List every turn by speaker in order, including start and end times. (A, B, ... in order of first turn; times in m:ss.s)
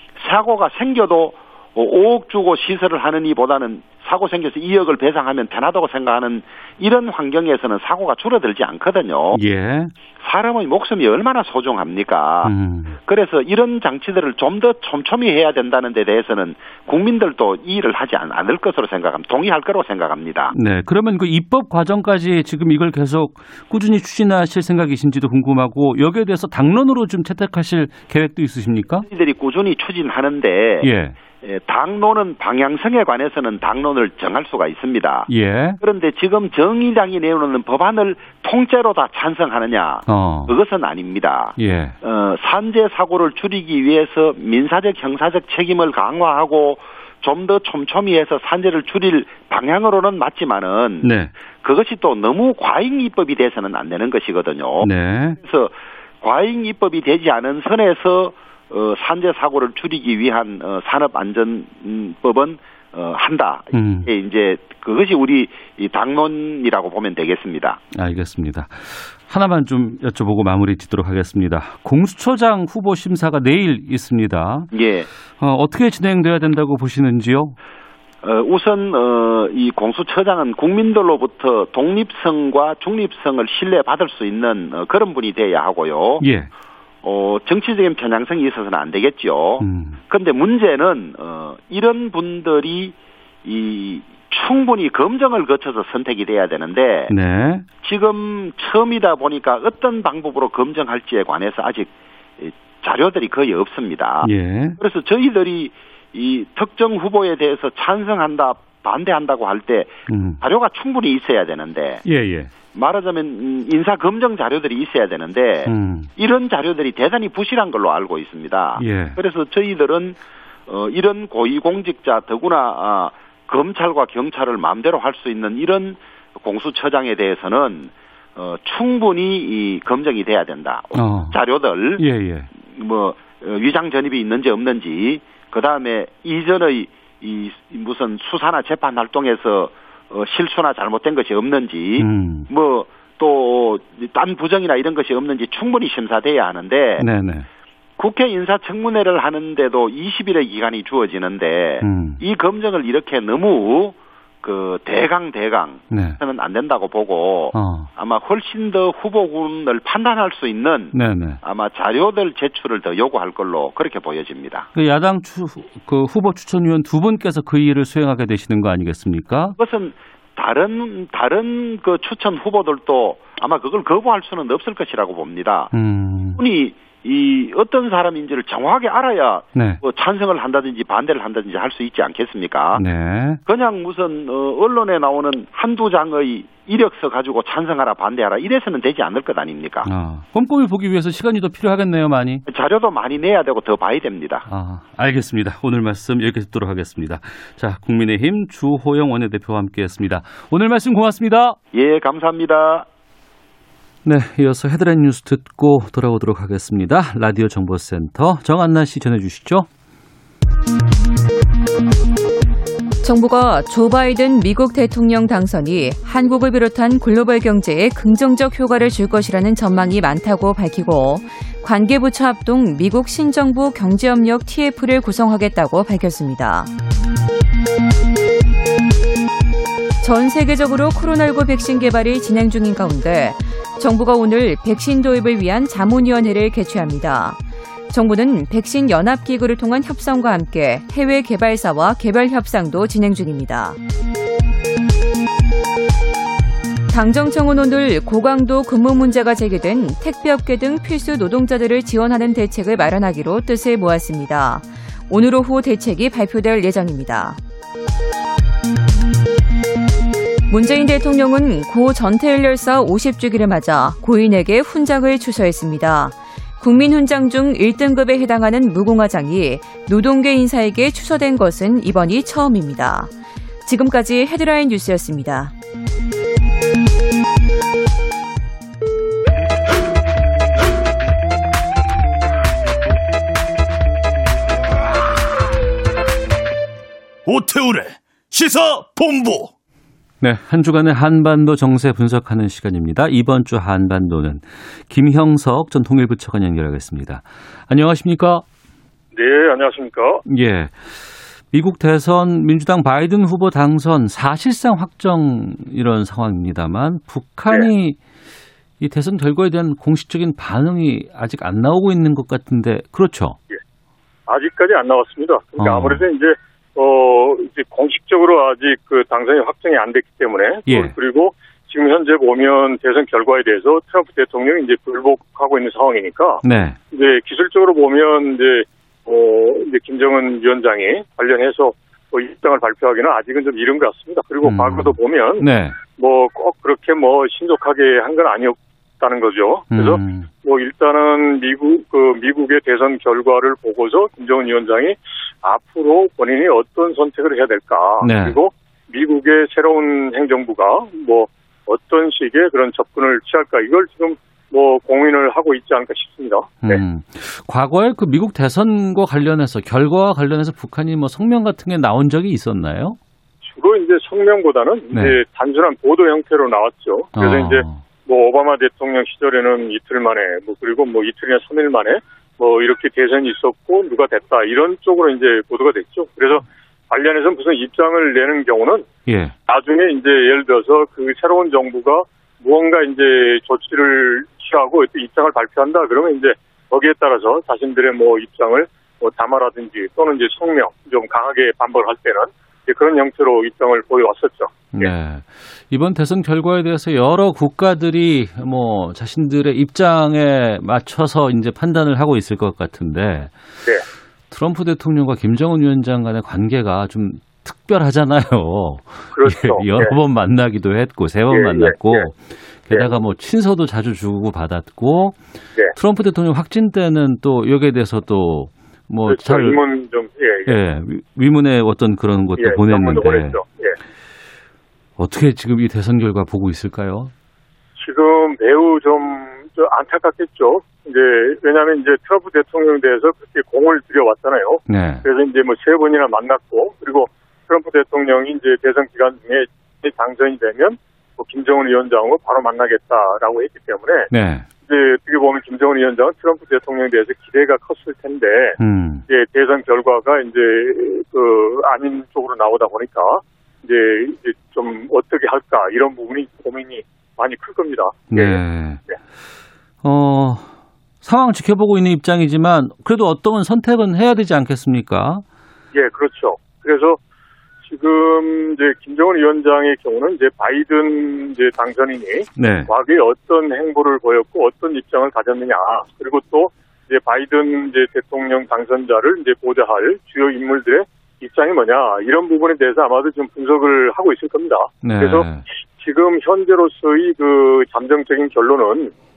0:00.2-0:09.4 A
0:09.3-0:09.9 B
0:10.2-0:20.5 A
0:12.4-0:13.0 B
0:20.5-0:29.1 B
0:29.1-0:30.9 A
0:30.8-0:31.1 B
0:31.4-0:35.3 A
0:35.3-0:35.8 B
0:35.8-0:51.1 A
0:40.0-0:40.5 B
0:41.6-0:42.0 B
0:51.0-0:51.3 B
0:51.6-1:07.8 A
0:54.8-0:55.4 B
1:03.7-1:04.1 B
1:07.9-1:14.7 B
1:14.7-1:15.1 A
1:15.4-1:17.5 B
1:18.2-1:26.2 A
1:26.2-1:26.5 B
1:27.0-1:37.1 A
1:29.6-1:30.0 B
1:37.1-1:37.6 B
1:37.8-1:52.0 A
1:44.2-1:44.8 B
1:50.1-1:50.4 B
1:52.0-1:52.5 B
1:52.7-2:12.0 A
1:55.6-1:56.1 B
1:58.8-1:59.2 B
2:10.9-2:11.4 B
2:12.0-2:12.5 B
2:12.6-2:27.0 A
2:22.0-2:22.5 B
2:27.0-2:27.5 B
2:28.0-2:44.7 A
2:31.8-2:32.2 B
2:35.9-2:36.2 B
2:37.5-2:37.9 B
2:40.9-2:41.4 B
2:44.7-2:49.6 B
2:49.6-2:55.7 A
2:55.7-2:56.4 B
2:56.4-3:02.8 A
2:59.5-2:59.8 B
3:02.7-3:03.4 B
3:03.4-3:09.9 A
3:09.8-3:12.4 B
3:12.4-3:14.4 A
3:14.4-3:21.6 B
3:21.7-3:22.9 A
3:24.0-3:29.7 B
3:33.0-3:46.7 C
3:50.0-3:57.4 C
3:57.9-4:03.8 C
4:06.9-4:17.4 C
4:20.5-4:33.1 C
4:33.6-4:35.5 C
4:47.2-4:49.5 D
4:50.2-4:58.4 B
4:59.1-5:00.2 E
5:00.2-5:00.7 B
5:01.5-5:08.0 B
5:08.8-5:13.4 B
5:14.3-5:56.8 E
5:15.6-5:16.0 B
5:20.7-5:20.9 B
5:26.4-5:26.8 B
5:34.4-5:35.8 B
5:39.7-5:40.3 B
5:48.0-5:48.4 B
5:56.6-6:03.0 B
6:03.4-6:18.9 E
6:04.9-6:05.2 B
6:07.2-6:07.8 B
6:19.1-6:19.4 B
6:19.5-6:34.9 E
6:34.7-6:43.4 B
6:44.3-6:55.2 B
6:49.1-6:49.9 E
6:51.3-6:52.1 E
6:55.7-6:59.6 B
6:59.1-7:00.5 E
7:00.4-7:03.4 B
7:02.4-7:03.8 E
7:05.0-7:07.1 B
7:07.8-7:24.1 E
7:14.7-7:15.0 B
7:24.1-7:24.4 B
7:24.6-7:38.4 E
7:28.6-7:29.0 B
7:38.1-7:38.8 B
7:39.8-7:40.5 B
7:41.0-7:45.2 B
7:45.7-7:47.0 E
7:47.6-8:08.9 E
7:52.4-7:52.7 B
8:04.8-8:05.4 B